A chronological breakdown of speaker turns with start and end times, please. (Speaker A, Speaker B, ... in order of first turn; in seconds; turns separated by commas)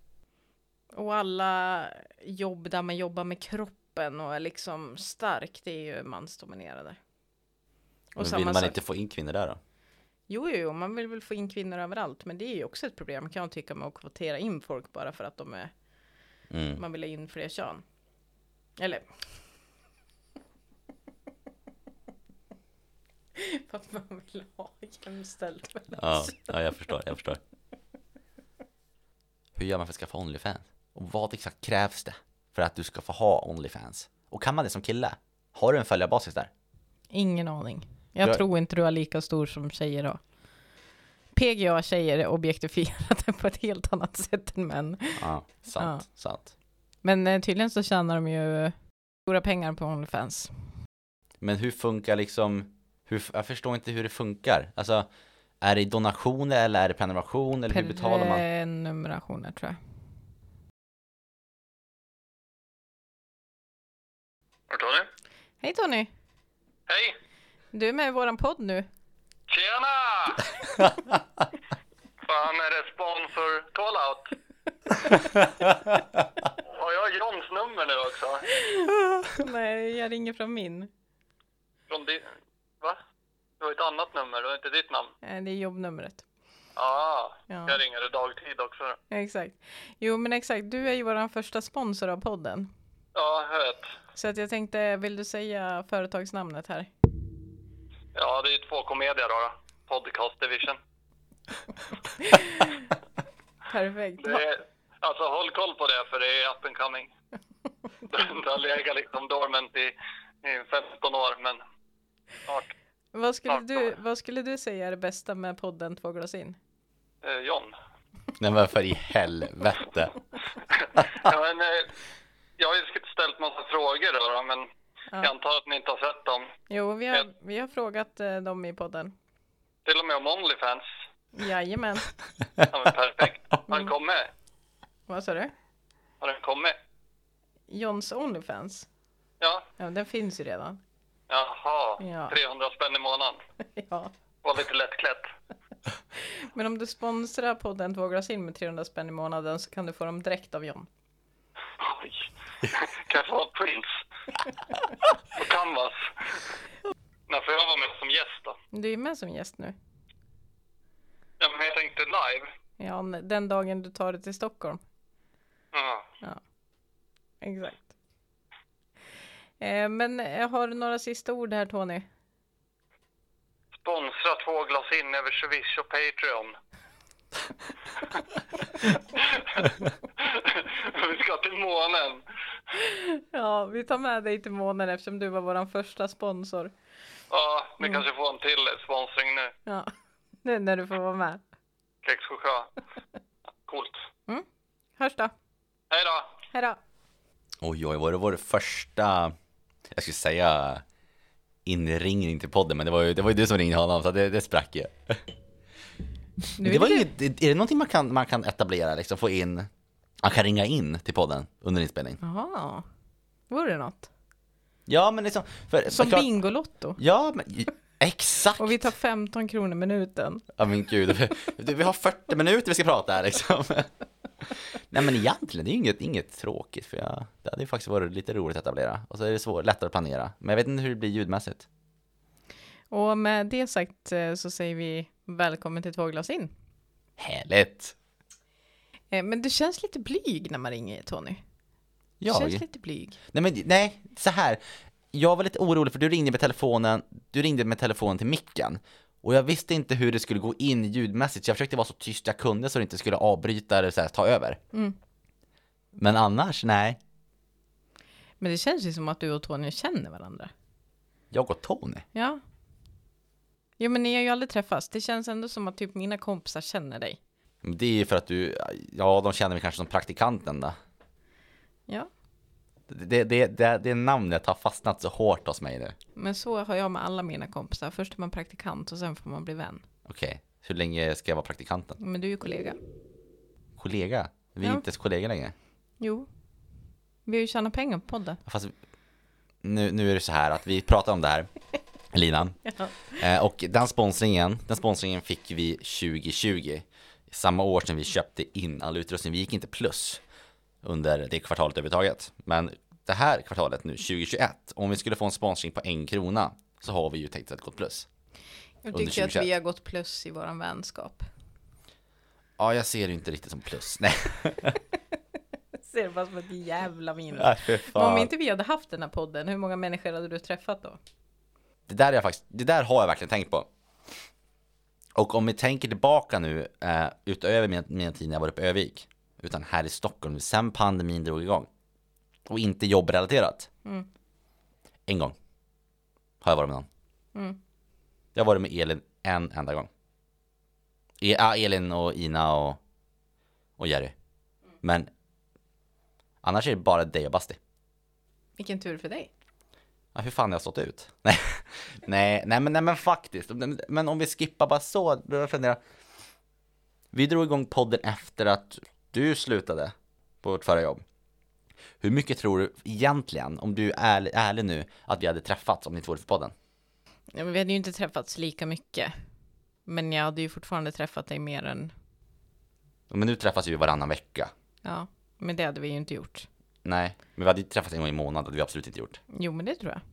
Speaker A: 0.9-7.0, Speaker A: 8.1-8.8, Speaker B: 8.2-9.6, Speaker A: 10.3-15.7, Speaker B: 16.5-16.8, Speaker A: 16.8-17.8, Speaker A: 18.8-19.0, Speaker A: 23.3-26.5, Speaker B: 25.9-27.4, Speaker B: 29.6-36.5, Speaker A: 37.1-40.2, Speaker A: 41.3-45.2, Speaker B: 45.2-46.5, Speaker A: 45.8-46.0, Speaker A: 47.0-48.7, Speaker A: 49.3-50.5, Speaker B: 51.4-55.1, Speaker B: 55.6-58.4, Speaker A: 57.7-59.8, Speaker C: 64.7-65.1, Speaker A: 65.6-66.1, Speaker C: 66.9-67.2, Speaker A: 67.7-68.9, Speaker C: 69.5-70.5, Speaker C: 72.2-74.3, Speaker C: 76.7-78.5, Speaker A: 78.5-80.9, Speaker C: 81.9-82.3, Speaker C: 83.6-85.1, Speaker A: 85.2-86.2, Speaker C: 86.8-89.0, Speaker A: 87.5-87.8, Speaker A: 89.1-92.7, Speaker C: 93.1-93.9, Speaker A: 94.1-96.9, Speaker C: 98.1-100.8, Speaker A: 102.2-102.9, Speaker A: 103.7-104.5, Speaker C: 104.2-107.1, Speaker C: 108.1-111.6, Speaker C: 112.5-112.7, Speaker A: 113.1-116.6, Speaker C: 113.5-113.8, Speaker C: 117.2-117.8, Speaker B: 118.4-120.1, Speaker C: 120.7-121.9, Speaker C: 122.6-124.7, Speaker C: 125.2-126.5, Speaker A: 126.7-129.1, Speaker C: 129.8-130.9, Speaker A: 131.3-132.1, Speaker C: 132.7-134.3, Speaker A: 135.1-135.5, Speaker C: 136.2-136.7, Speaker A: 137.7-138.9, Speaker C: 139.4-139.7, Speaker A: 139.8-140.8, Speaker C: 141.3-143.4, Speaker A: 142.0-142.3, Speaker A: 143.7-144.1, Speaker C: 144.4-145.3, Speaker A: 146.2-150.9, Speaker C: 151.8-154.0, Speaker C: 155.3-156.4, Speaker C: 157.3-158.6, Speaker A: 158.7-159.7, Speaker C: 161.4-162.5, Speaker A: 162.8-164.8, Speaker C: 165.7-166.1, Speaker A: 167.4-167.9, Speaker A: 169.6-172.1, Speaker C: 173.8-176.6, Speaker C: 178.8-182.2, Speaker A: 182.8-186.7, Speaker C: 187.3-189.5, Speaker A: 189.7-189.9, Speaker A: 190.4-191.4, Speaker C: 192.0-192.7, Speaker C: 193.7-194.0, Speaker A: 195.0-195.3, Speaker C: 195.9-196.3, Speaker A: 196.5-196.8, Speaker B: 197.6-199.3, Speaker B: 199.9-200.8, Speaker B: 201.6-205.2, Speaker A: 206.6-207.1, Speaker B: 206.6-209.7, Speaker B: 210.2-212.2, Speaker A: 212.2-212.8, Speaker A: 213.5-214.1, Speaker B: 214.9-216.3, Speaker A: 215.9-217.0, Speaker B: 217.0-218.8, Speaker A: 218.6-220.5, Speaker B: 220.5-223.9, Speaker B: 224.9-231.7, Speaker A: 232.9-236.5, Speaker B: 237.2-237.9, Speaker A: 239.1-241.4, Speaker B: 242.2-242.6, Speaker A: 242.3-243.2, Speaker B: 243.3-244.6, Speaker B: 245.1-254.6, Speaker B: 255.9-257.0, Speaker A: 258.4-260.5, Speaker B: 261.3-262.1, Speaker A: 262.1-262.4, Speaker A: 263.8-267.2, Speaker B: 267.6-270.7, Speaker B: 272.9-275.9, Speaker A: 276.1-279.8, Speaker B: 280.1-282.0, Speaker A: 282.0-282.8, Speaker B: 283.8-285.5, Speaker A: 286.0-286.3, Speaker A: 287.2-288.4, Speaker B: 288.4-288.7, Speaker B: 289.6-291.5, Speaker B: 292.1-292.6, Speaker A: 292.6-293.2, Speaker B: 293.2-300.2, Speaker B: 300.8-308.1, Speaker A: 308.8-311.2, Speaker B: 308.9-309.5, Speaker B: 312.6-314.8, Speaker A: 315.9-321.0, Speaker B: 317.3-318.3, Speaker B: 321.9-323.7, Speaker B: 325.1-331.7, Speaker B: 332.5-333.7, Speaker B: 335.1-335.3, Speaker B: 336.4-336.9, Speaker B: 338.3-339.9, Speaker B: 341.2-342.8, Speaker B: 343.8-344.1, Speaker B: 344.8-345.1, Speaker B: 346.4-347.6, Speaker A: 348.6-349.3, Speaker B: 350.1-355.8, Speaker B: 357.1-361.0, Speaker B: 362.0-366.5, Speaker A: 367.3-369.1, Speaker A: 369.9-371.9, Speaker B: 373.1-374.5, Speaker A: 374.8-376.5, Speaker B: 376.8-379.2, Speaker A: 379.3-380.0